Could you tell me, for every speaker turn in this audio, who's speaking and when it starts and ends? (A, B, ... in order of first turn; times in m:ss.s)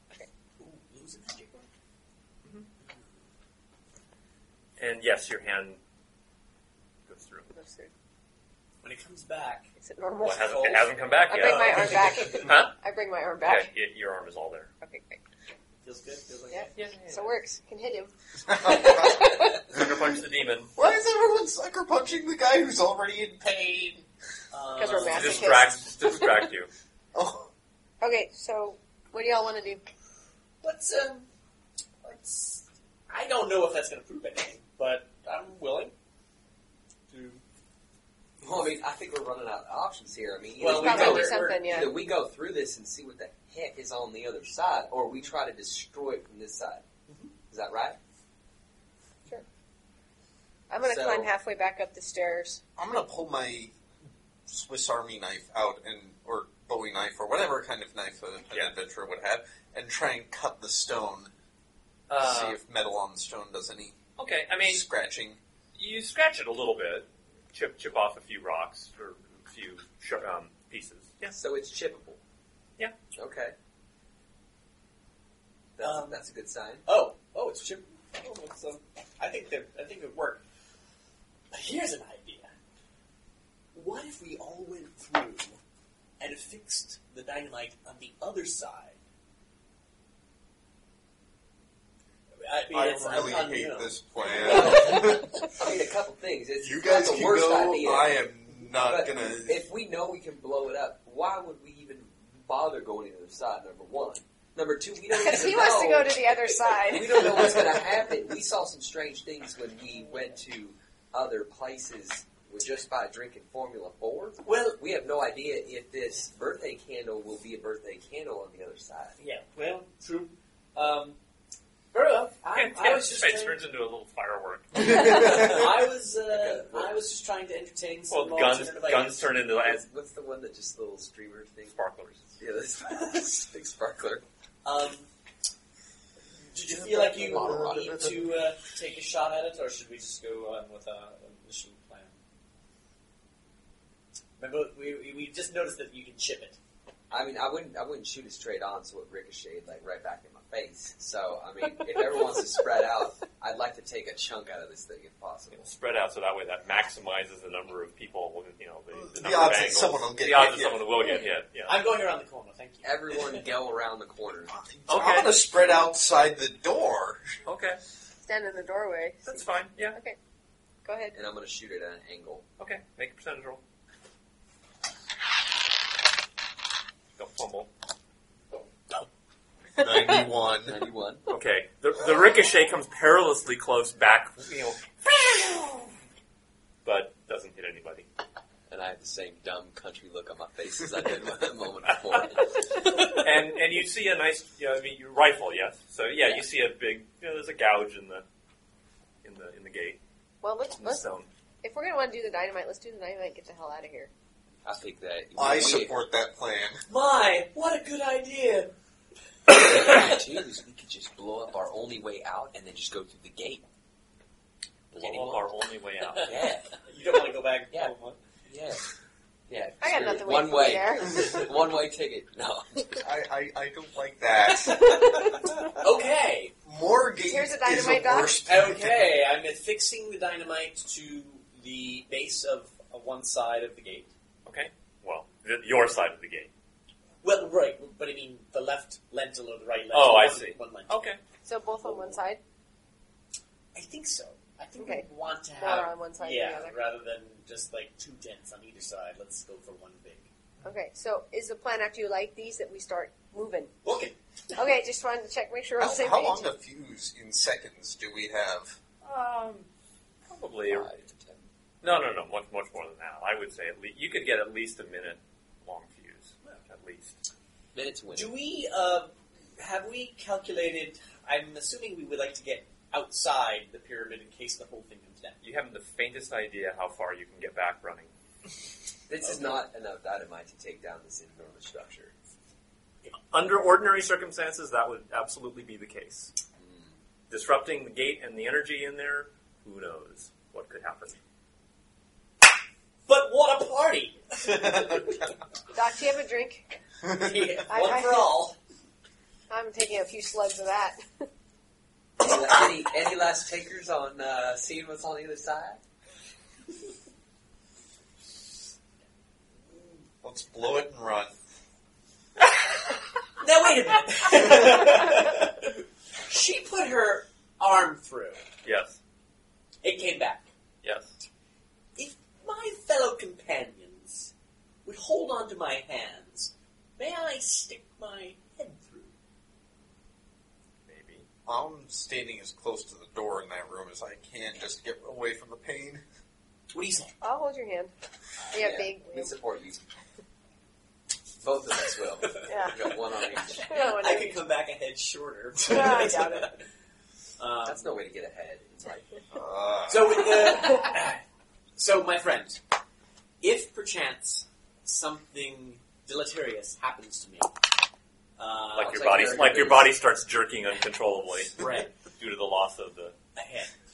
0:00.6-0:01.7 A
0:04.8-0:05.8 B
0:07.1-0:07.5 B
0:07.5-0:07.9 C
0:08.8-0:09.7 A
0:09.8-0:13.7 C
0:10.2-0:12.7 B
0:10.5-0:12.6 A
0:13.4-0:14.7 B
0:14.8-0:15.2 C
0:15.8-0:16.8 A
0:16.5-0:19.7 C
0:16.8-0:17.4 B
0:18.6-0:19.1 D
0:19.5-0:20.7 B
0:20.8-0:24.1 D
0:24.5-0:25.8 A
0:24.8-0:25.8 C
0:25.0-0:26.7 B
0:27.2-0:27.5 D
0:28.0-0:29.8 C
0:30.6-0:31.3 A
0:32.0-0:35.9 A
0:37.1-0:37.4 A
0:38.4-0:46.9 E
0:40.6-0:41.9 A
0:40.7-0:41.9 C
0:47.5-0:48.0 E
0:50.7-0:52.6 C
0:50.8-0:51.3 E
0:52.8-0:53.7 D
0:54.5-1:01.3 D
1:02.1-1:02.6 B
1:02.2-1:04.0 D
1:04.2-1:04.8 B
1:04.6-1:05.4 D
1:05.8-1:11.4 B
1:11.4-1:12.2 E
1:13.2-1:13.6 E
1:15.8-1:16.9 E
1:15.8-1:16.2 A
1:16.9-1:20.4 A
1:21.5-1:22.5 A
1:23.7-1:25.6 A
1:26.2-1:29.0 A
1:32.4-1:35.2 A
1:32.7-1:35.5 D
1:34.4-1:59.2 E
1:36.6-1:39.7 D
1:45.1-1:47.8 C
1:54.4-1:54.8 A
1:59.2-2:01.2 A
2:01.9-2:03.6 A
2:02.5-2:05.5 B
2:04.8-2:09.3 A
2:06.2-2:07.0 E
2:08.1-2:09.9 B
2:09.6-2:11.8 E
2:11.7-2:12.3 B
2:12.4-2:14.2 E
2:14.6-2:15.1 A
2:16.4-2:22.2 A
2:16.7-2:18.3 D
2:16.9-2:18.2 E
2:24.4-2:26.6 A
2:27.1-2:35.7 E
2:35.5-2:41.8 B
2:38.9-2:40.9 D
2:41.7-2:43.5 A
2:42.8-2:44.5 E
2:44.5-2:47.4 D
2:44.9-2:45.4 B
2:47.5-2:47.8 B
2:48.3-2:50.2 C
2:49.2-2:50.0 B
2:50.8-2:51.2 C
2:51.1-2:52.4 E
2:52.6-2:53.6 B
2:57.2-2:57.7 B
2:59.8-3:00.8 D
3:00.7-3:01.3 E
3:01.3-3:05.9 B
3:06.8-3:08.1 B
3:08.7-3:12.8 E
3:13.0-3:18.2 B
3:19.2-3:20.0 B
3:20.4-3:21.0 C
3:20.8-3:21.3 B
3:21.6-3:24.1 C
3:24.6-3:26.0 E
3:25.4-3:26.8 D
3:26.9-3:28.7 A
3:29.5-3:33.6 E
3:34.9-3:36.3 B
3:34.9-3:35.5 E
3:36.2-3:38.2 A
3:36.2-3:36.8 E
3:38.5-3:38.9 E
3:39.5-3:43.1 E
3:39.8-3:41.4 C
3:43.0-3:45.6 D
3:45.8-3:46.5 A
3:46.6-3:49.1 D
3:47.2-3:48.4 C
3:48.4-3:54.1 A
3:54.5-3:56.5 B
3:57.2-4:01.0 A
3:59.9-4:01.2 B
4:01.4-4:02.4 C
4:01.9-4:02.1 A
4:03.7-4:10.3 A
4:04.8-4:06.8 C
4:10.6-4:13.7 C
4:13.8-4:14.7 A
4:14.6-4:16.5 C
4:15.8-4:18.8 D
4:19.0-4:19.7 B
4:20.3-4:21.0 B
4:20.7-4:21.5 E
4:21.8-4:27.2 B
4:27.7-4:28.4 E
4:28.1-4:35.4 A
4:35.4-4:38.1 B
4:39.1-4:42.1 E
4:39.2-4:39.6 A
4:43.3-4:46.3 B
4:46.6-4:47.0 E
4:47.3-4:51.2 B
4:53.1-4:55.2 A
4:55.7-4:56.8 C
4:57.1-4:58.6 A
4:57.7-4:58.4 C
4:59.5-5:01.3 C
5:02.2-5:05.8 E
5:10.2-5:11.3 D
5:13.4-5:18.4 A
5:18.6-5:19.0 B
5:19.8-5:20.5 A
5:20.8-5:21.1 B
5:22.0-5:24.3 A
5:24.8-5:29.1 A
5:30.9-5:31.3 B
5:31.5-5:36.0 D
5:36.7-5:37.1 A
5:37.2-5:37.9 C
5:38.5-5:39.8 E
5:38.5-5:39.4 C
5:41.4-5:43.8 E
5:42.2-5:46.7 A
5:42.4-5:42.9 C
5:43.6-5:44.4 C
5:45.7-5:46.5 C
5:47.4-5:48.0 A
5:47.6-5:49.2 E
5:49.3-5:50.3 D
5:49.9-5:51.2 A
5:51.8-5:52.6 A
5:53.4-5:57.5 A
5:58.4-5:59.6 A
5:58.8-6:03.2 B
5:58.8-5:59.9 E
6:01.6-6:01.9 A
6:03.4-6:03.7 A